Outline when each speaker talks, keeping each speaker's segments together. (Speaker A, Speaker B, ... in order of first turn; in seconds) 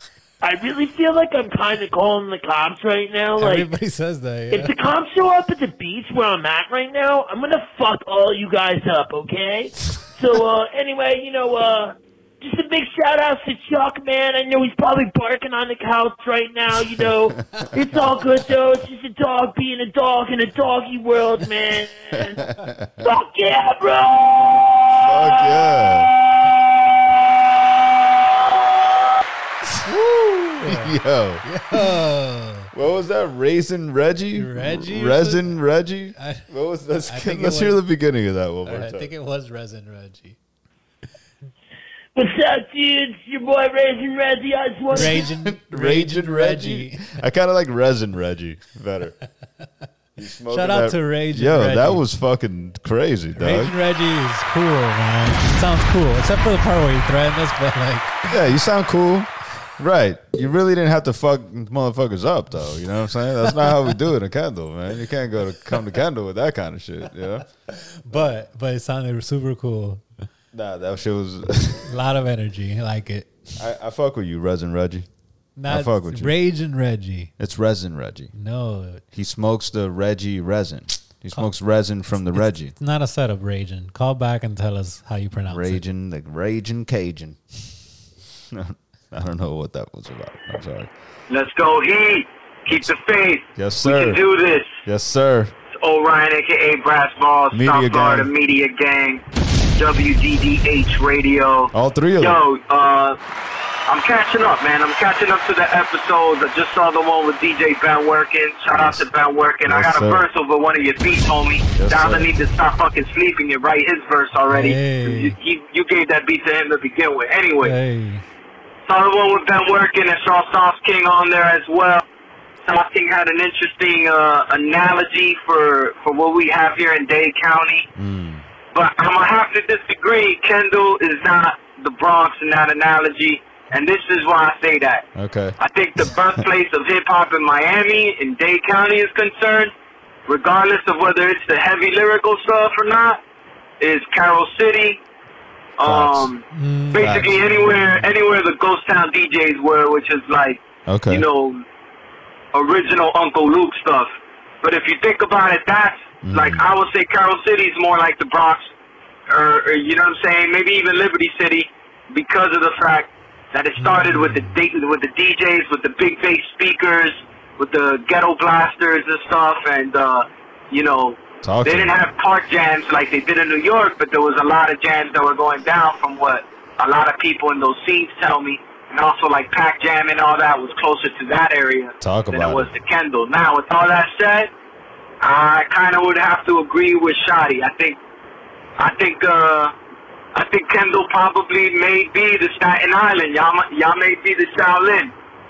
Speaker A: 0.4-3.7, 4.5-22.4, 23.0-26.1, 42.1-45.3
Speaker B: 3.4-4.7, 30.6-32.7, 34.3-35.6, 36.1-37.8, 38.6-40.4, 44.9-47.2, 50.5-52.1, 53.3-58.3, 63.4-63.9, 67.7-70.0, 71.8-73.5, 75.6-77.3, 78.3-79.0, 82.3-85.8, 114.5-115.4, 117.6-118.2, 146.5-148.1, 163.8-164.6
Speaker C: 22.4-23.1, 25.0-26.1, 29.9-31.4, 32.7-39.1, 44.9-49.2, 50.2-53.7, 58.3-67.5, 70.5-71.9, 73.6-75.1, 75.7-76.3, 77.4-78.3, 79.1-82.8, 85.5-87.4, 88.5-90.9, 93.5-94.2, 94.8-95.5, 97.5-98.3, 101.7-102.4, 109.6-110.3, 111.8-112.3, 128.0-128.5, 135.2-136.1, 145.8-146.3, 147.0-147.3, 150.9-151.3, 156.2-156.7, 171.4-172.1, 182.0-182.7
Speaker D: 91.3-94.8, 95.7-99.2, 99.8-103.2, 103.9-117.8, 118.9-122.1, 122.6-127.9, 128.7-135.1, 135.6-139.7, 140.3-143.2, 143.8-145.0, 145.8-151.6, 152.5-154.1, 154.6-158.7, 159.3-184.5, 185.2-188.0, 188.8-189.7, 190.3-195.1